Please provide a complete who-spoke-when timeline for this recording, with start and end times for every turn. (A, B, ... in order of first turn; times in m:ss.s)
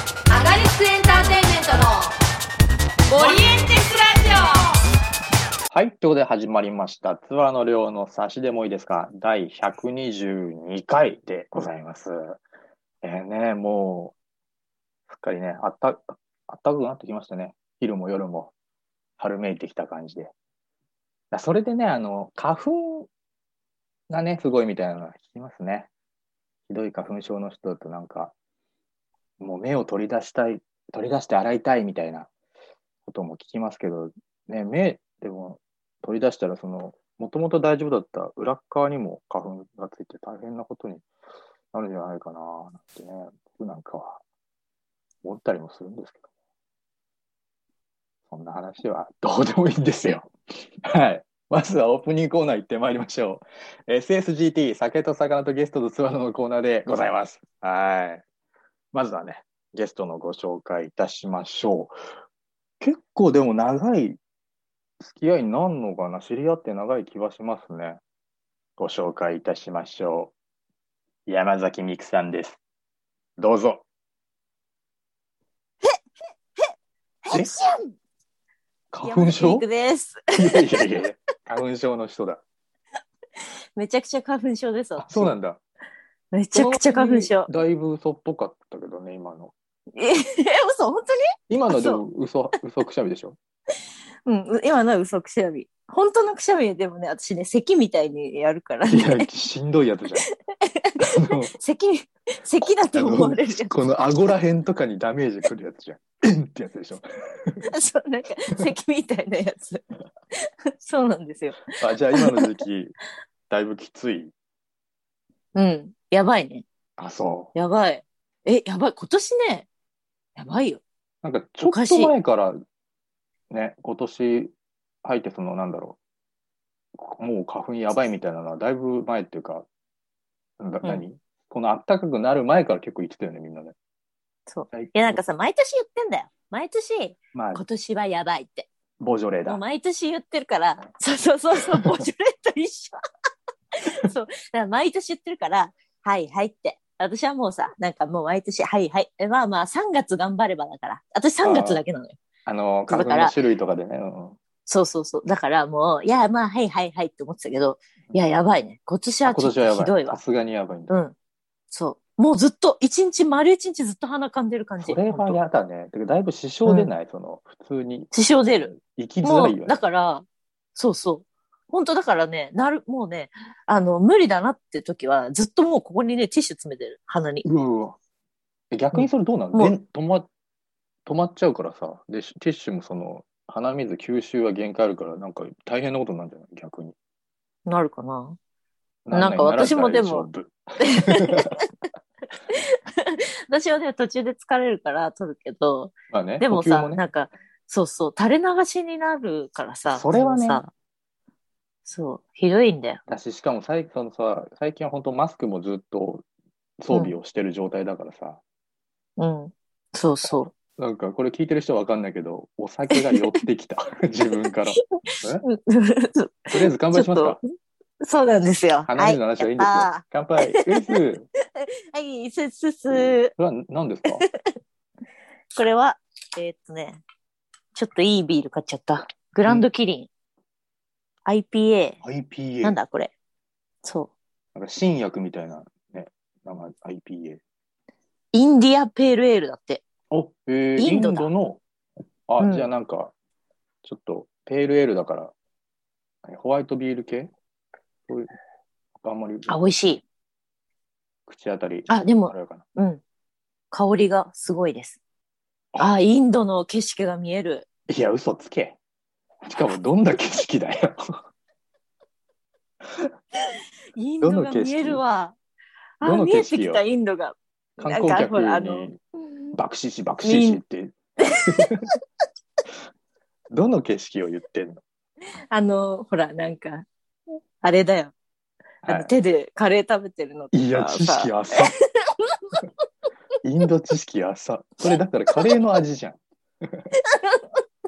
0:00.4-0:01.6 A
0:00.4-0:01.8 B
0:03.1-0:04.5 B
0:03.1-0:03.4 A
0:05.7-0:12.4 C
0:13.0-0:14.2 C
0:15.1-0:18.5 C
0:19.2-0:20.3 C
0:21.3-0:23.1 C
0:24.1-0:25.9 C
0:26.7-0:28.3 C
0:29.4-0:32.3 C
0:33.0-0:41.0 C
0:41.7-0:44.2 C
0:45.2-0:46.2 C
0:48.3-0:58.2 C
0:58.9-1:01.9 C
1:02.8-1:04.2 C
1:05.0-1:08.0 C
1:08.8-1:10.3 C
1:11.2-1:12.6 C
1:13.4-1:13.8 C
1:17.2-1:18.0 A
1:18.9-1:19.6 C
1:19.0-1:20.8 A
1:20.4-1:22.4 C
1:23.8-1:25.3 A
1:25.0-1:25.6 C
1:26.3-1:27.5 A
1:26.5-1:29.5 C
1:29.9-1:32.0 A
1:31.5-1:33.4 C
1:34.2-1:39.3 A
1:38.9-1:40.2 C
1:40.3-1:43.7 A
1:41.1-1:41.5 C
1:42.9-1:47.6 C
1:47.6-1:49.8 A
1:50.4-1:52.4 A
1:51.7-1:53.0 C
1:53.5-1:54.3 C
1:55.5-1:56.6 A
1:57.0-1:57.5 C
1:57.5-1:59.7 A
2:00.4-2:00.8 A
2:01.2-2:02.6 C
2:01.6-2:02.1 A
2:03.5-2:04.5 C
2:05.0-2:06.0 C
2:07.0-2:09.7 C
2:10.6-2:13.8 C
2:14.5-2:18.7 A
2:14.7-2:15.2 C
2:17.3-2:17.6 C
2:19.0-2:19.6 C
2:19.4-2:23.0 A
2:23.7-2:32.2 A
2:31.4-2:31.8 C
2:32.4-2:34.4 C
2:32.9-2:33.3 A
2:34.6-2:40.2 A
2:39.2-2:40.9 C
2:40.9-2:41.1 A
2:41.7-2:45.4 A
2:44.8-2:48.1 C
2:46.6-2:46.9 A
2:48.1-2:48.7 A
2:48.7-2:49.8 C
2:49.2-2:57.4 A
2:57.4-2:58.0 C
2:58.7-3:00.3 C
2:58.9-2:59.7 A
3:01.0-3:06.9 C
3:07.6-3:08.4 A
3:09.0-3:11.5 C
3:09.1-3:10.3 A
3:10.8-3:11.6 A
3:12.5-3:20.7 A
3:16.1-3:17.0 C
3:19.9-3:20.6 C
3:21.9-3:23.0 A
3:23.1-3:26.2 C
3:26.8-3:28.4 C
3:29.2-3:30.5 A
3:30.2-3:35.4 C
3:32.9-3:33.2 A
3:35.1-3:37.4 A
3:36.5-3:37.4 C
3:38.0-3:41.0 A
3:38.9-3:41.2 C
3:41.6-3:43.3 A
3:42.9-3:44.2 C
3:45.6-3:47.0 A
3:47.7-3:50.1 A
3:51.2-3:52.0 A
3:52.0-3:52.8 C
3:52.6-3:53.1 A
3:53.8-3:54.1 A
3:54.5-3:57.4 C
3:58.3-3:59.8 A
4:00.1-4:01.6 C
4:00.8-4:01.3 A
4:02.3-4:03.1 C
4:02.4-4:02.7 A
4:03.8-4:05.3 C
4:06.2-4:07.3 C
4:08.1-4:08.3 C
4:09.0-4:09.5 C
4:09.5-4:10.0 A
4:11.3-4:12.6 C
4:11.9-4:13.0 A
4:13.7-4:15.0 A
4:15.8-4:17.7 A
4:17.9-4:18.8 C
4:19.4-4:21.2 C
4:24.0-4:25.4 A
4:24.2-4:25.0 C
4:26.0-4:28.9 A
4:26.0-4:26.8 C
4:27.8-4:29.0 C
4:29.5-4:31.9 C
4:30.2-4:30.6 A
4:31.2-4:31.7 A
4:33.5-4:34.8 C
4:35.3-4:36.9 A
4:37.6-4:38.1 A
4:38.8-4:39.1 C
4:38.9-4:42.7 A
4:40.5-4:41.7 C
4:43.4-4:46.9 C
4:47.0-4:47.5 A